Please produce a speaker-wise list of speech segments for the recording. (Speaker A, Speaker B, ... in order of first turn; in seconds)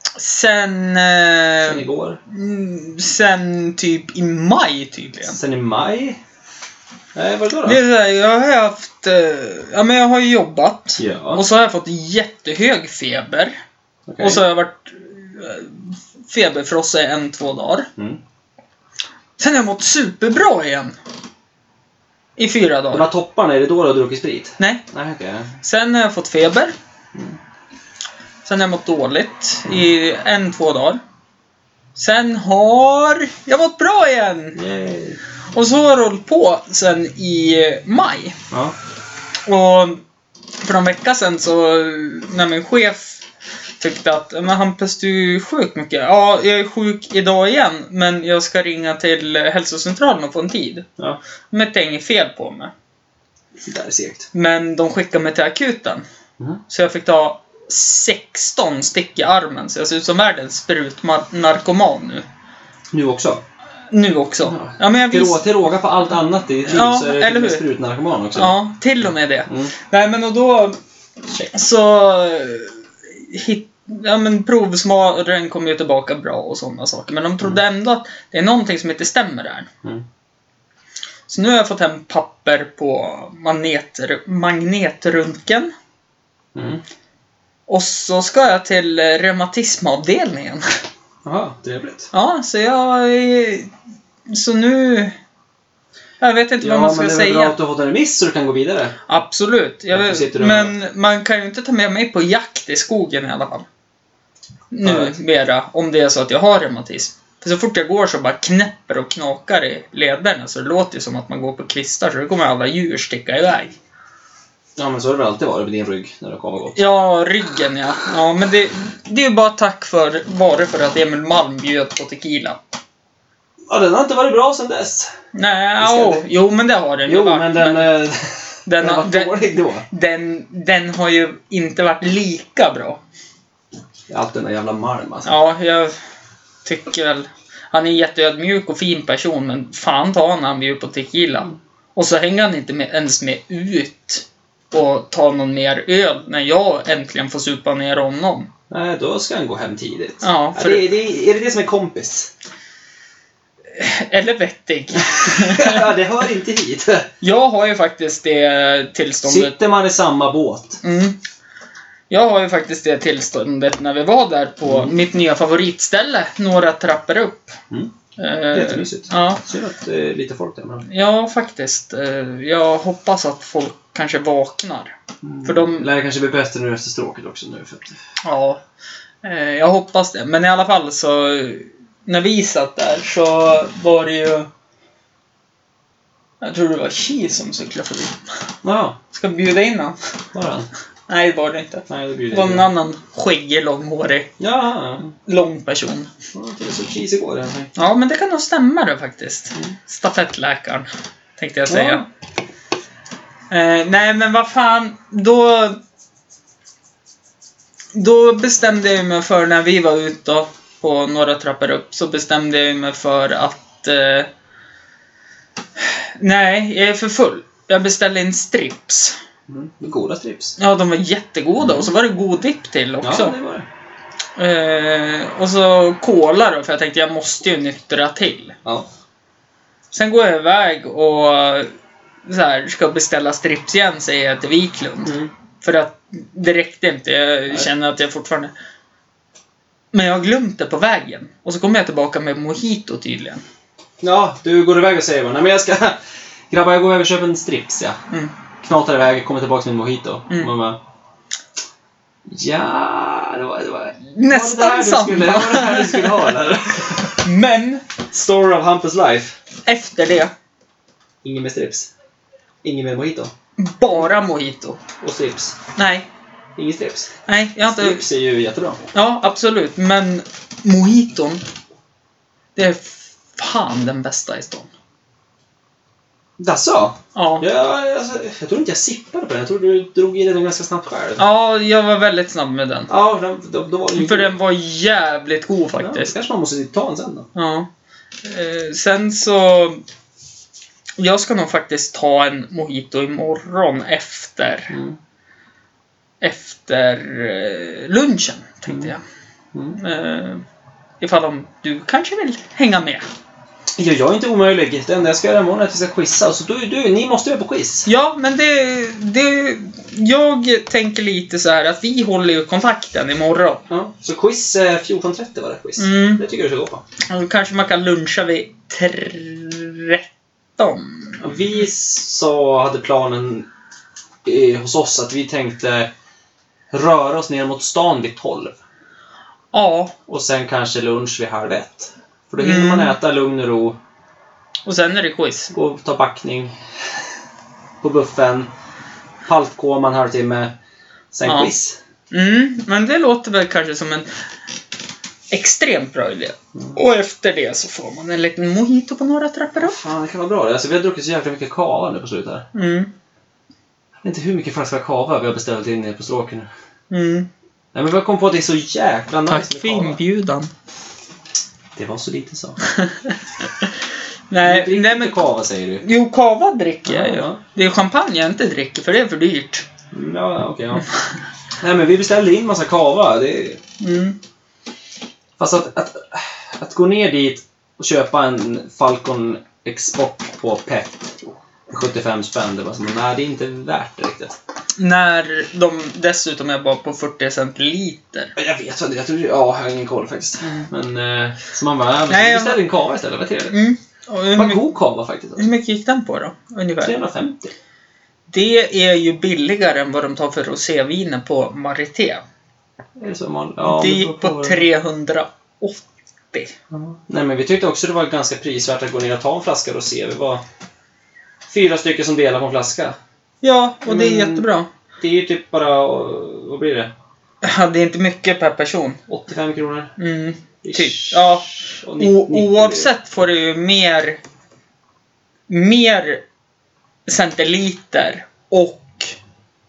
Speaker A: 0.2-5.4, 7.7-13.6, 14.2-17.9, 19.4-21.0, 22.4-23.1, 25.6-26.7, 28.4-31.0, 31.9-34.6, 35.5-38.4, 39.5-40.0, 40.6-43.2, 43.8-50.9, 51.5-52.7, 54.3-56.0, 56.7-62.2, 63.9-65.4, 66.7-67.7, 68.3-70.8, 71.4-79.7, 81.3-85.7, 87.7-90.7, 92.1-93.7, 94.3-95.2, 96.2-97.6, 99.1-103.7, 104.7-113.8, 116.8-122.6, 125.3-127.9, 128.7-133.0, 135.2-135.9, 136.7-148.5, 150.2-150.9, 153.7-155.9, 157.2-159.6, 160.8-161.2, 162.1-167.6, 168.2-169.4, 170.9-175.9, 178.2-178.6, 179.2-184.5, 186.4-188.2, 189.1-190.0, 191.1-194.3, 195.2-196.1, 197.8-202.1, 203.5-205.8, 207.9-214.3, 215.8-219.2, 220.6-223.4, 224.4-228.6, 229.9-231.7, 232.2-238.5, 239.9-243.4, 254.1-256.4, 257.2-257.8, 259.6-260.3, 263.6-264.8, 265.8-266.1, 267.3-268.1, 268.9-271.4, 272.6-274.7, 277.1-277.5, 281.2-282.9, 284.0-286.1, 287.4-287.7, 288.2-289.8, 291.0-294.7, 296.2-299.0, 299.8-300.4, 301.0-303.1, 307.9-313.6, 315.8-316.2, 317.1-320.1, 320.6-321.2, 329.5-329.9, 332.4-333.0, 334.6-335.5, 341.2-341.5, 342.1-344.1, 345.3-349.8, 352.5-352.9, 356.9-357.3, 359.3-360.5, 362.7-363.7, 364.3-365.2, 365.8-369.7, 373.8-374.2, 384.8-388.3, 390.4-390.7, 392.1-392.6, 393.5-394.6, 395.4-397.0, 398.3-402.2, 403.6-406.5, 413.4-414.7, 417.4-419.0, 420.0-424.2, 425.5-426.2, 427.1-429.2
Speaker B: 1.6-2.2, 5.2-6.2, 7.2-7.8, 11.0-11.4, 14.1-14.4, 22.9-25.5, 34.6-35.2, 53.6-54.3, 62.9-63.4, 64.4-68.6, 69.5-69.7, 86.5-86.8, 91.2-92.1, 96.6-99.0, 99.9-100.7, 104.8-105.2, 114.8-116.8, 123.7-125.1, 125.8-126.3, 127.1-129.9, 134.1-135.3, 148.7-152.3, 155.0-157.1, 159.3-160.8, 164.7-164.9, 168.5-170.9, 175.2-178.0, 188.6-189.0, 190.3-190.7, 191.9-192.7, 194.4-195.1, 196.3-197.7, 201.7-202.1, 219.5-220.6, 223.0-223.7, 235.1-235.3, 244.0-246.0, 246.5-248.0, 248.6-250.8, 252.3-257.2, 258.1-259.4, 261.2-261.9, 262.6-263.3, 265.0-265.6, 266.6-267.1, 267.6-268.8, 276.4-281.2, 282.9-284.3, 285.8-287.3, 294.7-295.0, 298.7-298.9, 303.8-307.9, 313.7-316.8, 321.2-323.5, 324.2-325.9, 326.7-328.6, 330.1-333.8, 335.5-336.6, 337.8-338.5, 339.2-340.6, 341.1-341.8, 349.6-352.5, 354.0-356.5, 357.7-360.0, 361.8-362.6, 364.4-365.9, 366.9-367.4, 369.9-370.9, 371.6-373.6, 375.4-384.4, 388.4-393.6, 394.4-395.5, 396.8-397.5, 403.0-404.7, 406.7-410.4, 411.5-413.0, 413.9-416.9, 419.1-419.9, 420.6-422.9